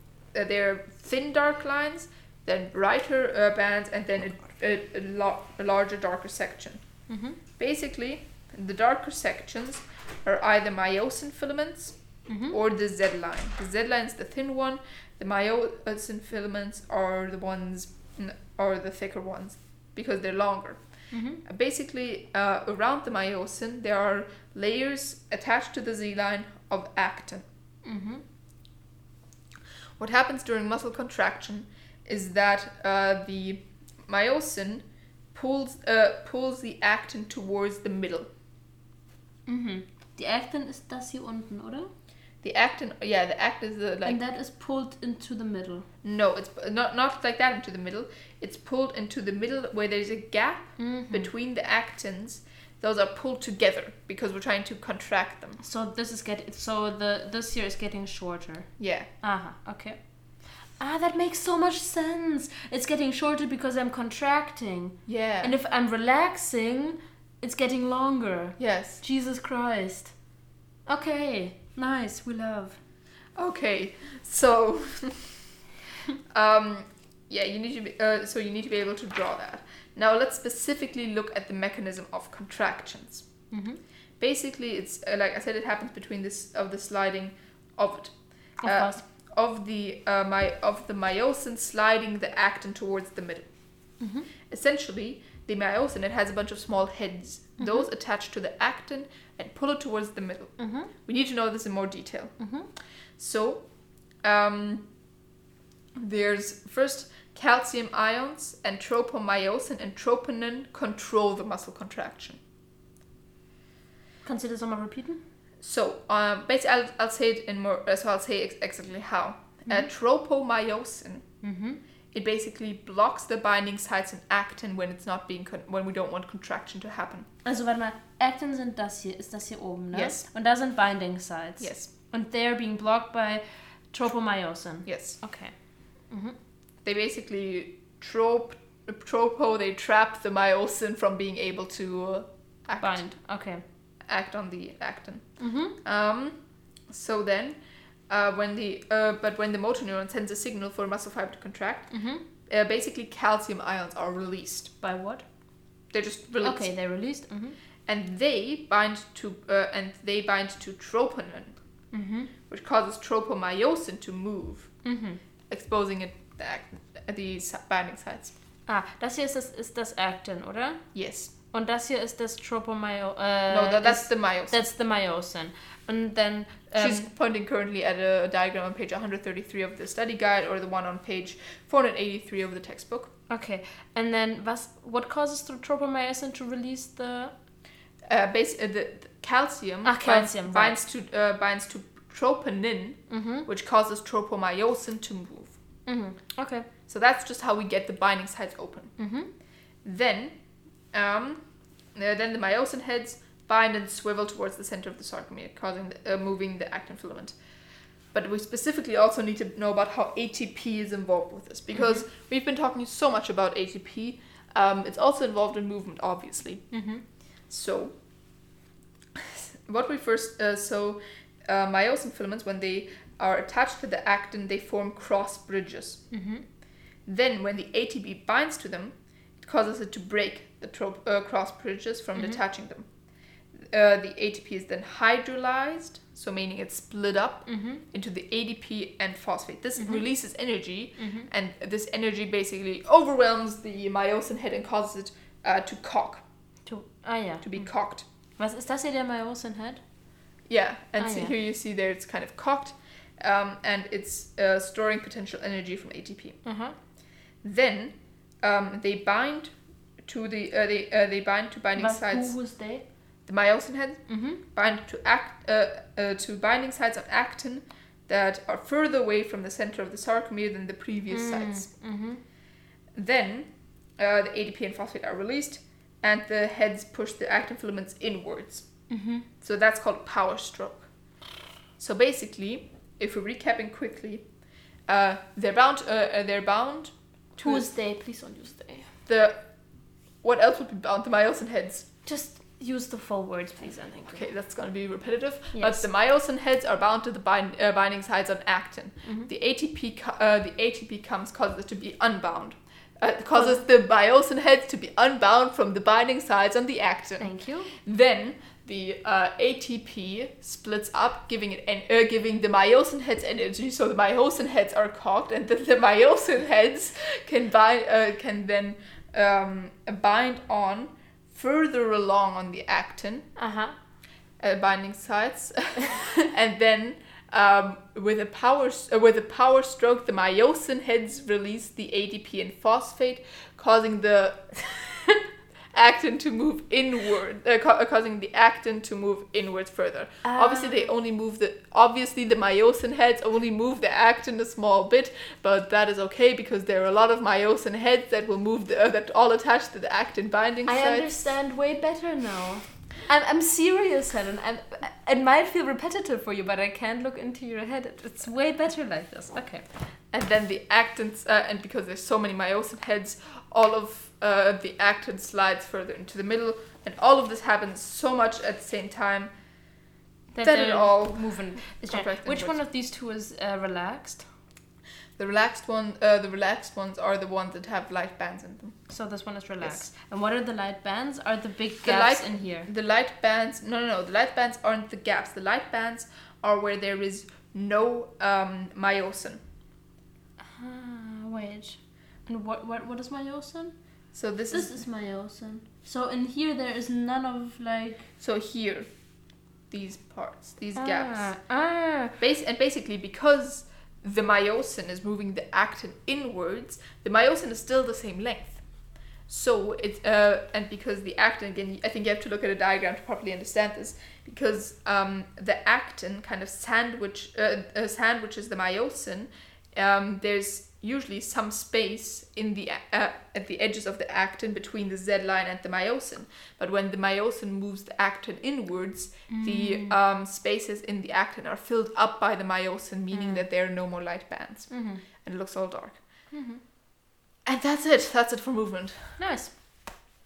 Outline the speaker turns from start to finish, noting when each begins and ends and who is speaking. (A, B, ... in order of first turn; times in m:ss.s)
0:00.3-0:06.8 A
0:07.1-0:07.4 B
0:07.6-0:12.0 A
0:12.3-0:12.6 B
0:12.5-0:20.8 A
0:21.1-0:21.4 B
0:21.4-0:27.4 A
0:27.8-0:28.2 B
0:30.0-0:38.3 A
0:39.4-0:41.9 B
0:42.4-0:44.2 A
0:44.0-0:45.8 B
0:46.0-0:55.6 A
0:50.8-0:51.3 B
0:55.6-1:00.0 B
0:58.8-0:59.1 A
1:00.8-1:10.1 B
1:05.0-1:05.5 A
1:08.6-1:09.0 A
1:10.9-1:12.8 B
1:13.4-1:15.4 A
1:16.3-1:23.2 A
1:23.5-1:23.8 B
1:24.2-1:33.5 A
1:28.6-1:29.0 B
1:34.0-1:34.3 B
1:34.5-1:42.3 A
1:37.6-1:37.8 B
1:40.6-1:40.9 B
1:42.4-1:42.7 B
1:43.2-1:43.6 A
1:44.2-1:44.8 A
1:46.0-1:52.4 A
1:54.2-1:55.2 B
1:55.6-2:01.2 A
2:01.4-2:01.8 B
2:02.1-2:07.3 A
2:07.4-2:15.5 B
2:09.9-2:10.2 A
2:11.6-2:11.9 A
2:14.8-2:15.2 A
2:16.1-2:16.4 B
2:16.8-2:23.1 A
2:22.8-2:23.6 B
2:24.1-2:25.3 A
2:25.4-2:25.8 B
2:25.8-2:26.4 A
2:26.9-2:27.6 A
2:28.1-2:31.9 A
2:31.9-2:32.2 B
2:32.4-2:34.7 A
2:34.8-2:35.2 B
2:35.9-2:36.7 A
2:36.4-2:37.6 B
2:37.9-2:41.6 A
2:41.9-2:42.3 B
2:42.5-2:44.7 A
2:44.8-2:45.2 B
2:45.5-2:48.3 A
2:48.7-2:50.9 B
2:50.9-2:51.3 A
2:51.5-2:57.0 B
2:53.5-2:54.6 A
2:56.8-3:03.1 A
3:03.3-3:07.3 B
3:08.1-3:15.6 A
3:09.8-3:10.8 B
3:13.1-3:13.5 B
3:15.8-3:16.6 B
3:16.9-3:18.9 A
3:19.0-3:19.3 B
3:19.8-3:20.3 A
3:20.9-3:21.4 A
3:21.9-3:27.4 A
3:28.1-3:36.6 A
3:31.7-3:32.0 B
3:36.7-3:37.0 B
3:37.5-3:37.9 A
3:39.2-3:46.0 A
3:46.1-3:46.4 B
3:47.0-3:52.9 A
3:53.6-4:06.2 A
3:57.4-3:57.8 B
3:59.8-4:00.0 B
4:01.0-4:01.3 B
4:06.6-4:07.7 B
4:07.4-4:08.0 A
4:08.4-4:09.8 B
4:10.5-4:16.4 A
4:11.0-4:11.3 B
4:16.4-4:16.8 B
4:17.4-4:19.5 A
4:20.0-4:22.3 A
4:21.8-4:22.8 B
4:23.2-4:31.7 A
4:24.1-4:24.4 B
4:31.1-4:32.2 B
4:32.9-4:38.6 A
4:38.9-4:39.3 B
4:39.4-4:40.9 A
4:41.8-4:44.2 A
4:44.9-4:47.7 A
4:47.4-4:48.9 B
4:49.1-4:49.4 A
4:50.2-4:51.9 A
4:52.0-4:54.3 B
4:54.1-5:23.3 A
4:55.5-4:55.8 B
4:59.0-4:59.3 B
5:03.3-5:03.6 B
5:07.2-5:07.7 B
5:23.4-5:23.7 B
5:24.4-5:34.7 A
5:35.7-5:51.1 A
5:40.2-5:40.8 B
5:50.6-5:59.6 B
6:00.1-6:09.3 A
6:10.3-6:14.2 B
6:10.4-6:12.5 A
6:15.2-6:18.8 A
6:18.9-6:22.7 B
6:21.8-6:29.4 A
6:30.5-6:33.7 B
6:34.1-6:34.8 A
6:34.5-6:38.1 B
6:38.2-6:38.9 A
6:39.7-6:41.3 A
6:40.8-6:42.2 B
6:42.2-6:48.6 A
6:49.3-7:16.0 A
7:09.3-7:09.9 B
7:13.1-7:13.4 B
7:14.7-7:15.0 B
7:16.3-7:16.6 B
7:17.4-7:19.1 A
7:19.2-7:19.5 B